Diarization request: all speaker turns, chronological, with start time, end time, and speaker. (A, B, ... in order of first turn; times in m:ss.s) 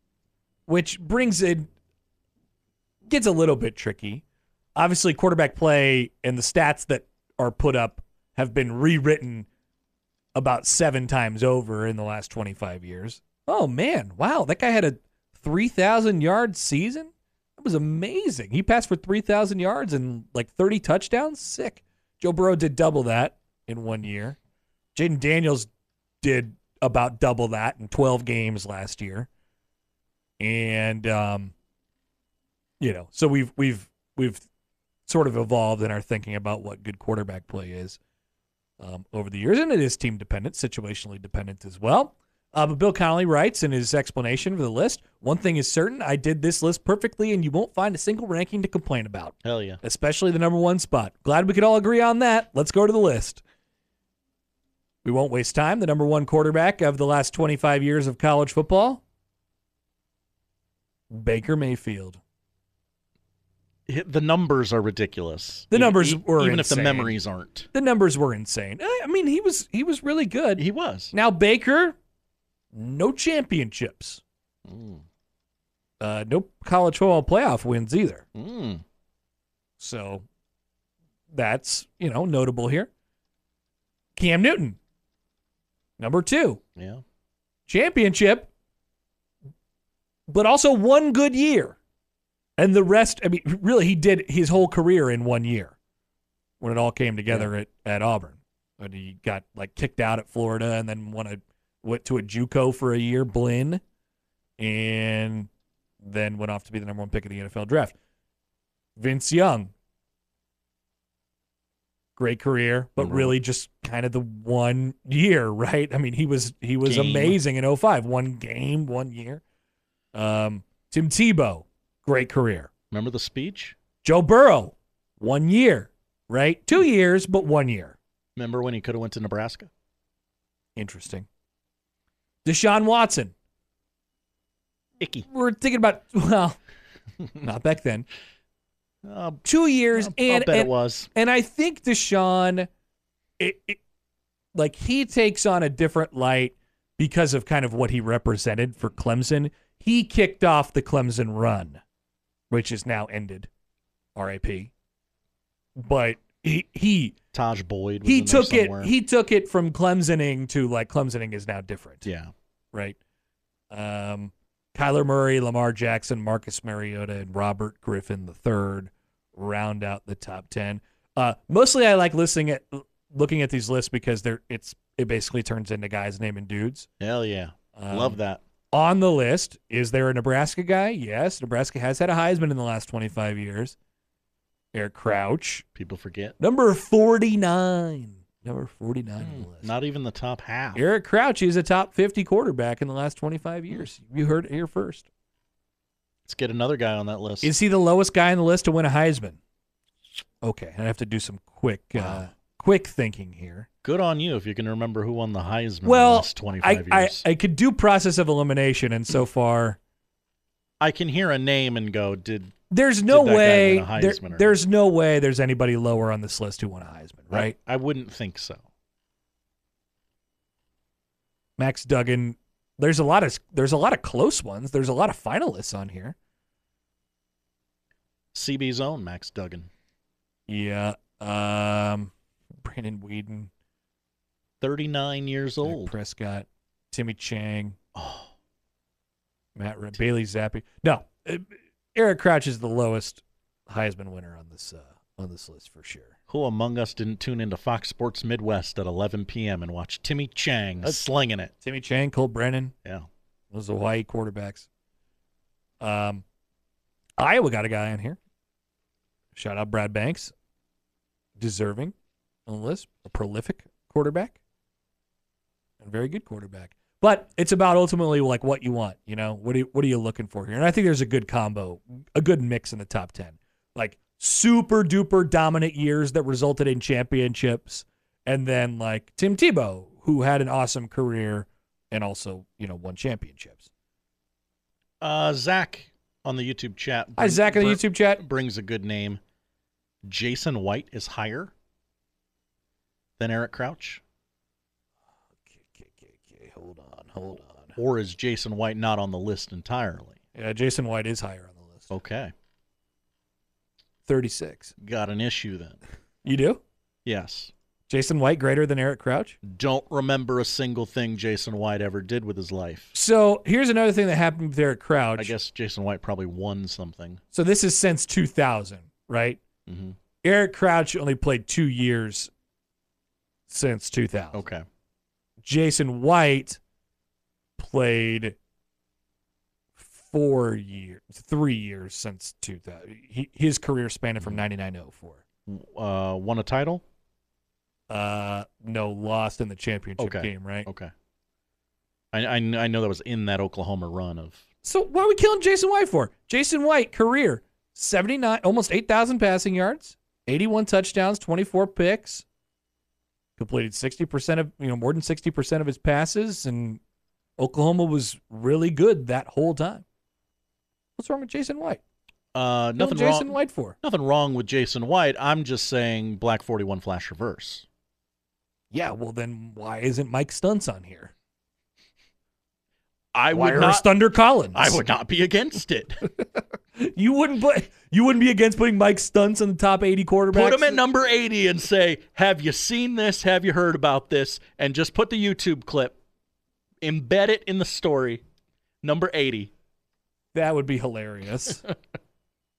0:00.7-0:01.7 A
0:03.0-0:04.2 A
0:04.8-0:09.5 A
0:10.4-0:24.4 A
0:25.0-0:25.7 A
0:26.2-0:29.3 A
0:30.4-0:31.5 A
0:32.8-0:34.4 A
0:35.1-0:38.0 A
0:38.8-0:53.4 A
0:49.4-0:49.8 B
0:55.0-0:59.0 A
1:01.1-1:02.2 A
1:03.9-1:07.7 B
1:05.7-1:07.2 A
1:07.7-1:12.0 A
1:10.6-1:11.1 B
1:12.7-1:14.2 A
1:14.7-1:15.0 B
1:16.0-1:18.2 A
1:18.4-1:18.8 B
1:19.8-1:20.2 A
1:21.3-1:22.9 A
1:24.2-1:24.8 A
1:26.0-1:26.6 A
1:26.8-1:27.0 B
1:27.7-1:28.5 A
1:30.3-1:31.8 A
1:32.6-1:35.8 A
1:36.6-1:43.8 A
1:44.6-1:45.5 A
1:46.0-1:48.0 A
1:49.0-1:49.7 A
1:52.2-1:59.4 A
1:53.0-1:53.4 B
1:56.8-1:57.4 B
2:00.1-2:02.7 A
2:02.9-2:03.8 B
2:04.0-2:08.0 A
2:08.4-2:09.7 B
2:10.8-2:11.3 A
2:12.4-2:13.3 A
2:15.0-2:15.3 B
2:15.3-2:16.6 A
2:17.4-2:18.1 A
2:19.0-2:21.1 B
2:19.4-2:22.7 A
2:23.4-2:23.8 A
2:24.5-2:31.8 A
2:32.5-2:33.5 A
2:34.2-2:34.7 A
2:35.8-2:37.2 A
2:37.3-2:38.9 B
2:38.0-2:42.1 A
2:42.0-2:42.3 B
2:43.7-2:56.9 A
2:57.0-2:58.4 B
2:57.8-2:58.2 A
2:58.7-3:03.8 A
3:04.7-3:05.6 A
3:05.8-3:06.4 B
3:06.4-3:09.7 A
3:09.2-3:10.8 B
3:10.8-3:15.1 A
3:16.3-3:17.5 B
3:17.4-3:19.4 A
3:20.4-3:23.7 A
3:22.0-3:22.3 B
3:23.8-3:27.3 B
3:25.8-3:29.8 A
3:30.8-3:32.6 B
3:32.7-3:37.6 A
3:33.1-3:34.6 B
3:37.3-3:38.6 B
3:41.6-3:46.2 A
3:48.3-3:49.7 B
3:50.5-3:52.1 A
3:52.6-3:53.5 A
3:54.6-3:55.9 B
3:55.6-3:57.8 A
3:58.0-3:58.3 B
3:59.6-4:06.1 A
4:06.3-4:11.5 B
4:11.6-4:12.7 A
4:13.5-4:14.7 A
4:15.8-4:16.2 A
4:17.2-4:18.2 A
4:19.3-4:20.3 A
4:21.4-4:21.9 A
4:22.5-4:24.4 A
4:25.8-4:43.7 A
4:45.0-4:49.2 B
4:47.2-4:48.2 A
4:50.0-4:51.5 B
4:53.2-4:54.0 B
4:55.5-4:57.8 A
4:57.8-5:00.2 B
5:00.4-5:02.0 A
5:01.9-5:02.3 B
5:04.1-5:04.7 A
5:04.8-5:05.8 B
5:06.2-5:06.6 A
5:07.0-5:07.5 B
5:07.9-5:09.4 A
5:09.4-5:13.0 B
5:12.9-5:15.3 A
5:15.2-5:17.2 B
5:17.3-5:19.4 A
5:19.7-5:20.0 B
5:20.2-5:22.3 A
5:23.5-5:24.5 A
5:24.3-5:24.6 B
5:25.4-5:26.6 A
5:27.6-5:28.4 A
5:29.8-5:35.2 A
5:35.5-5:36.8 B
5:37.9-5:40.7 A
5:40.0-5:40.9 B
5:42.1-5:44.4 B
5:44.6-5:52.2 A
5:53.4-5:56.8 A
5:57.4-5:59.8 A
6:01.0-6:01.8 A
6:02.3-6:07.6 B
6:02.8-6:03.8 A
6:08.7-6:11.1 A
6:13.1-6:13.9 B
6:13.3-6:14.8 A
6:14.5-6:16.0 B
6:16.8-6:20.8 A
6:20.3-6:26.0 B
6:26.8-6:28.2 B
6:28.8-6:29.5 B
6:30.3-6:31.6 A